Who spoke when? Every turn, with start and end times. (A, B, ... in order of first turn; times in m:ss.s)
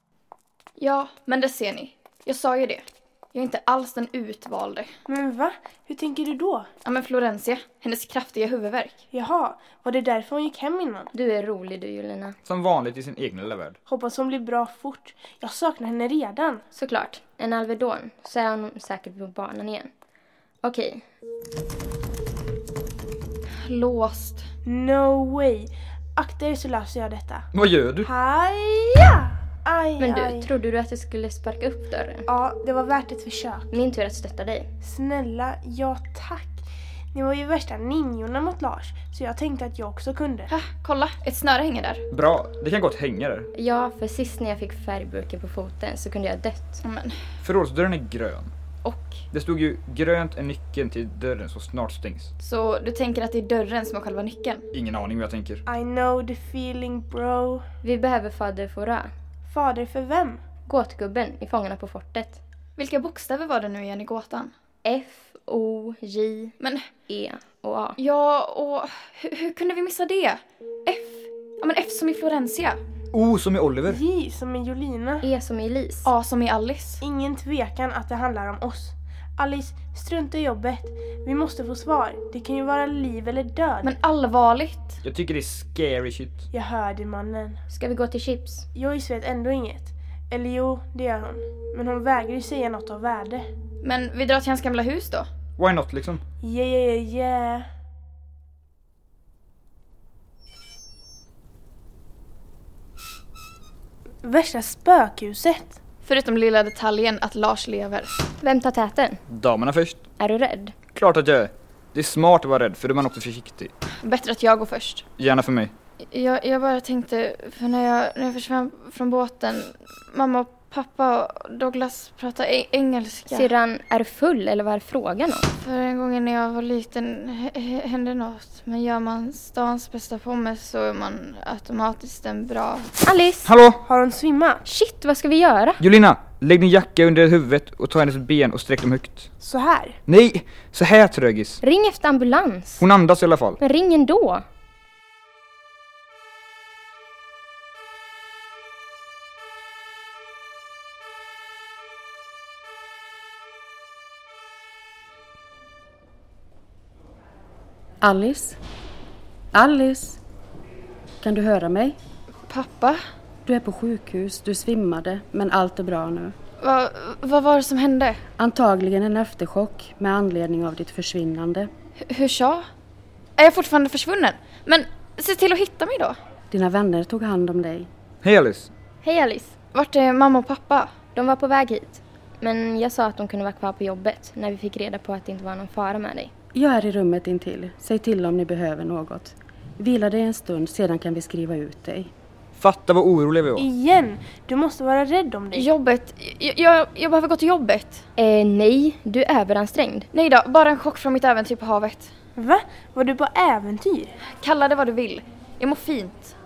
0:00.8-0:04.9 A
0:05.1-0:06.7 B
0:06.8-0:09.0 A
0:09.1-0:11.1 B
0:11.1-0:12.4 C
0:12.5-0:13.8 D
0:13.9-0:16.6 B
0:16.7-0:19.9 C
0:20.6-0:21.1 C
0:23.6-0:24.4 A
0:24.7-0:27.5 B
0:27.5-0:28.1 D
0:28.0-0:30.5 B
0:30.0-0:32.2 C
0:32.3-0:33.7 B
0:33.7-0:34.7 C
0:34.8-0:36.6 B
0:37.1-0:40.5 B
0:40.5-0:42.0 A
0:42.1-0:43.5 D
0:43.6-0:46.8 C
0:46.8-0:47.2 A
0:47.4-0:48.5 D
0:48.8-0:49.2 A
0:49.3-0:52.3 D
0:52.4-0:54.7 A
0:54.7-0:55.6 D
0:55.7-0:57.6 B
0:57.8-0:59.1 C
0:59.5-1:00.4 B
1:00.7-1:02.4 C
1:02.8-1:04.5 A
1:04.8-1:06.6 C
1:07.1-1:08.0 C
1:08.0-1:12.8 A
1:13.1-1:14.0 D
1:13.9-1:15.3 B
1:15.2-1:16.1 C
1:16.0-1:17.0 A
1:17.0-1:23.9 B
1:23.8-1:25.0 A
1:25.0-1:26.4 D
1:26.5-1:27.6 B
1:27.7-1:28.7 C
1:28.7-1:33.5 B
1:33.8-1:35.3 A
1:35.6-1:36.2 D
1:36.4-1:37.7 B
1:44.2-1:45.8 B
1:46.0-1:48.2 A
1:48.4-1:49.2 C
1:49.3-1:50.0 D
1:50.2-1:50.7 C
1:50.9-1:53.7 D
1:54.0-1:55.1 A
1:55.2-1:55.7 D
1:56.1-2:03.5 A
2:03.3-2:05.5 C
2:05.6-2:12.9 A
2:13.0-2:13.5 C
2:13.5-2:13.8 D
2:13.8-2:14.6 B
2:14.6-2:15.8 C
2:15.8-2:19.3 D
2:19.4-2:20.0 B
2:20.1-2:21.6 D
2:21.6-2:22.8 C
2:22.8-2:23.6 D
2:23.6-2:24.4 C
2:38.0-2:38.6 E
2:39.5-2:40.2 E
2:41.2-2:42.0 E
2:42.5-2:43.0 A
2:43.4-2:46.4 E
2:46.6-2:48.2 A
2:48.4-2:51.7 E
2:52.1-2:52.7 A
2:53.4-2:56.2 A
2:56.5-2:57.9 E
2:58.2-2:58.7 D
2:59.0-2:59.6 C
2:59.7-3:01.0 A
3:01.1-3:06.3 C
3:06.5-3:12.1 E
3:12.6-3:13.7 D
3:13.6-3:15.7 B
3:15.5-3:18.0 A
3:18.2-3:20.1 C
3:20.1-3:22.1 A
3:22.4-3:24.1 B
3:24.3-3:26.3 A